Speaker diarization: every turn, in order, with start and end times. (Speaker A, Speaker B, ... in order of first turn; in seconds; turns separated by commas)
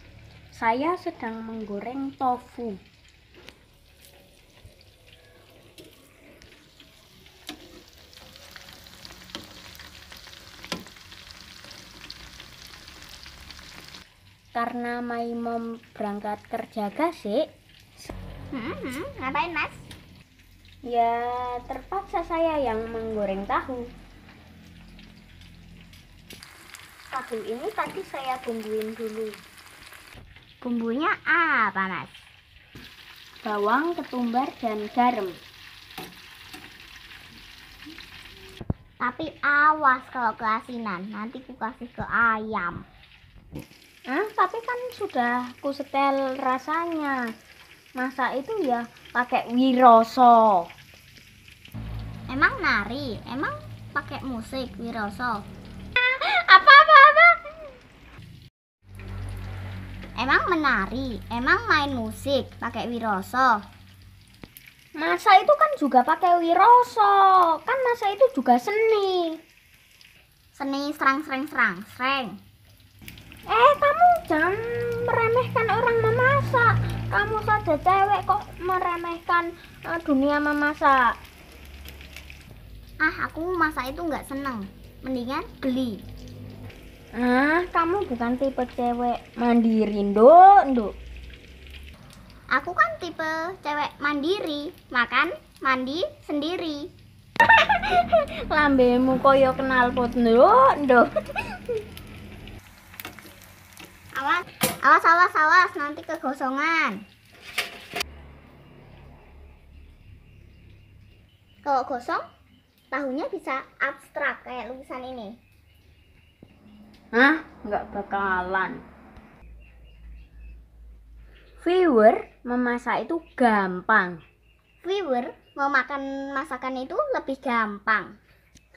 Speaker A: 0.5-2.8, Speaker A: 14.5-17.4, Speaker B: 18.5-19.9, Speaker A: 20.8-23.9, Speaker A: 27.1-29.4, Speaker B: 30.6-32.2, Speaker A: 33.4-35.4, Speaker B: 39.0-42.8, Speaker A: 44.1-47.2, Speaker A: 48.0-50.7, Speaker B: 52.3-55.5, Speaker A: 56.0-57.4, Speaker B: 60.2-63.6, Speaker A: 65.0-69.4, Speaker B: 70.5-72.4, Speaker A: 73.5-81.2, Speaker B: 83.0-86.0, Speaker A: 87.1-90.9, Speaker B: 92.5-96.9, Speaker A: 97.5-101.1, Speaker B: 104.2-107.0, Speaker B: 111.7-112.2, Speaker B: 112.9-115.4, Speaker A: 117.1-118.8, Speaker A: 121.6-124.2, Speaker B: 124.8-128.2